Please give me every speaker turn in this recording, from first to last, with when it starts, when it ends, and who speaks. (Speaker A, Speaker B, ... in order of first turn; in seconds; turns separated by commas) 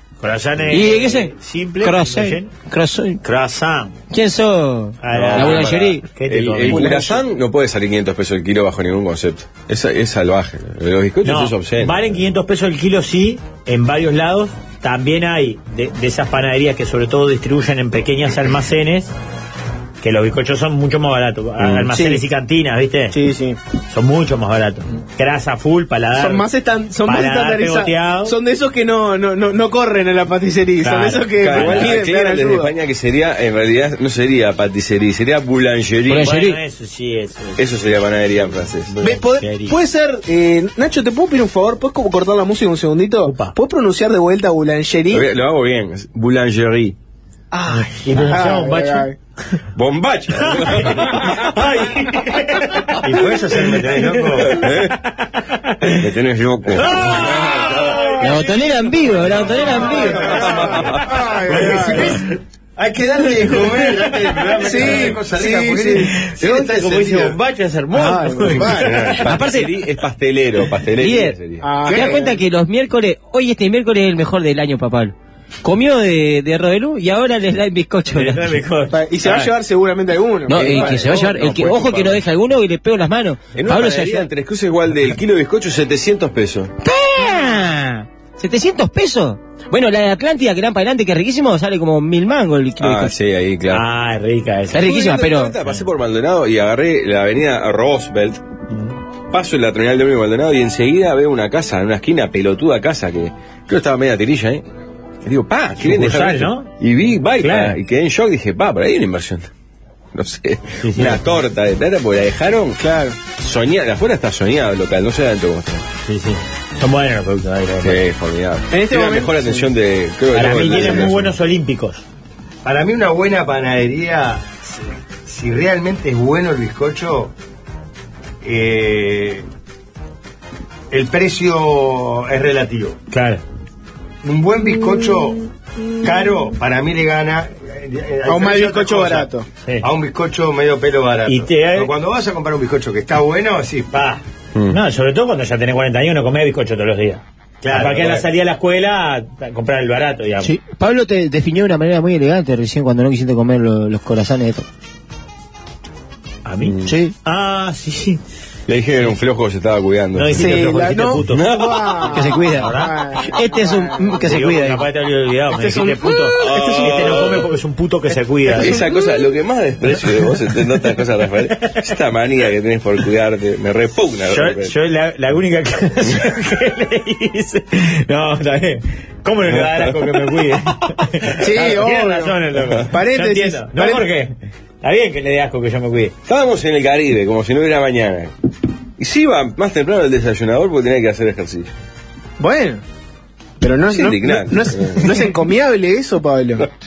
Speaker A: 0.2-2.5, Speaker B: 0.7-1.3, Speaker B: 1.8-3.2, Speaker A: 3.2-3.9, Speaker B: 4.1-6.0, Speaker A: 5.0-7.1, Speaker C: 5.1-12.0, Speaker D: 6.8-7.1, Speaker A: 11.2-19.1, Speaker A: 20.0-23.2, Speaker C: 21.6-21.9, Speaker D: 21.9-22.2, Speaker D: 23.1-23.6, Speaker A: 23.9-26.4, Speaker D: 26.1-32.7, Speaker A: 27.0-28.4, Speaker A: 30.8-32.0, Speaker C: 31.4-36.3, Speaker B: 36.1-36.6, Speaker A: 36.2-37.6, Speaker C: 37.6-38.9, Speaker A: 38.9-39.8, Speaker D: 39.0-45.2, Speaker A: 43.2-43.5, Speaker C: 45.1-47.0, Speaker D: 47.5-49.1, Speaker A: 47.7-49.1, Speaker C: 49.7-51.3, Speaker A: 50.4-53.0, Speaker E: 53.0-54.6, Speaker C: 54.5-55.0, Speaker A: 54.6-56.0, Speaker C: 56.0-57.9, Speaker A: 56.8-60.0, Speaker B: 58.2-60.4, Speaker E: 59.9-67.4, Speaker C: 60.4-61.0, Speaker D: 61.0-62.1, Speaker A: 61.5-62.2, Speaker D: 64.6-66.2, Speaker A: 66.2-69.3, Speaker D: 67.9-69.1, Speaker E: 68.7-69.2, Speaker C: 69.2-71.7, Speaker B: 69.2-69.7, Speaker B: 71.0-71.3, Speaker D: 71.6-72.4, Speaker B: 71.8-78.6, Speaker A: 78.1-79.5, Speaker D: 78.9-80.9, Speaker B: 80.5-84.3, Speaker C: 80.5-82.2, Speaker C: 83.5-86.7, Speaker B: 86.8-93.1, Speaker C: 92.8-93.8, Speaker A: 93.7-95.0, Speaker B: 94.7-95.5, Speaker C: 94.7-98.4, Speaker A: 98.7-99.0, Speaker C: 99.3-104.6, Speaker C: 105.2-109.5, Speaker A: 105.8-106.7, Speaker A: 107.4-107.8, Speaker C: 110.1-115.8, Speaker A: 110.8-111.2, Speaker D: 112.8-113.2, Speaker A: 116.1-118.0, Speaker C: 117.8-121.3, Speaker D: 118.7-119.6, Speaker A: 120.3-122.0, Speaker E: 122.6-124.6, Speaker E: 125.2-127.3, Speaker E: 128.4-129.4, Speaker E: 130.9-133.0, Speaker A: 133.1-133.4, Speaker E: 134.2-135.5, Speaker E: 136.0-139.3, Speaker D: 138.2-139.4, Speaker E: 139.8-144.2, Speaker A: 141.3-141.9, Speaker A: 144.7-150.5, Speaker E: 147.6-148.3, Speaker B: 150.4-154.7, Speaker A: 156.4-158.2, Speaker C: 156.6-156.9, Speaker B: 156.9-157.1, Speaker C: 158.7-160.7, Speaker A: 160.1-161.4, Speaker D: 160.3-164.1, Speaker C: 161.3-162.1, Speaker B: 162.1-162.7, Speaker A: 162.5-162.9, Speaker B: 163.3-164.8, Speaker A: 164.2-168.8, Speaker D: 165.5-166.3, Speaker C: 166.3-167.5, Speaker C: 168.6-174.8, Speaker D: 168.6-168.9, Speaker A: 174.3-186.1, Speaker C: 179.5-179.9, Speaker D: 181.4-184.1, Speaker C: 186.3-188.3, Speaker C: 189.0-191.7, Speaker D: 192.4-192.8, Speaker D: 193.6-196.7, Speaker C: 193.9-195.3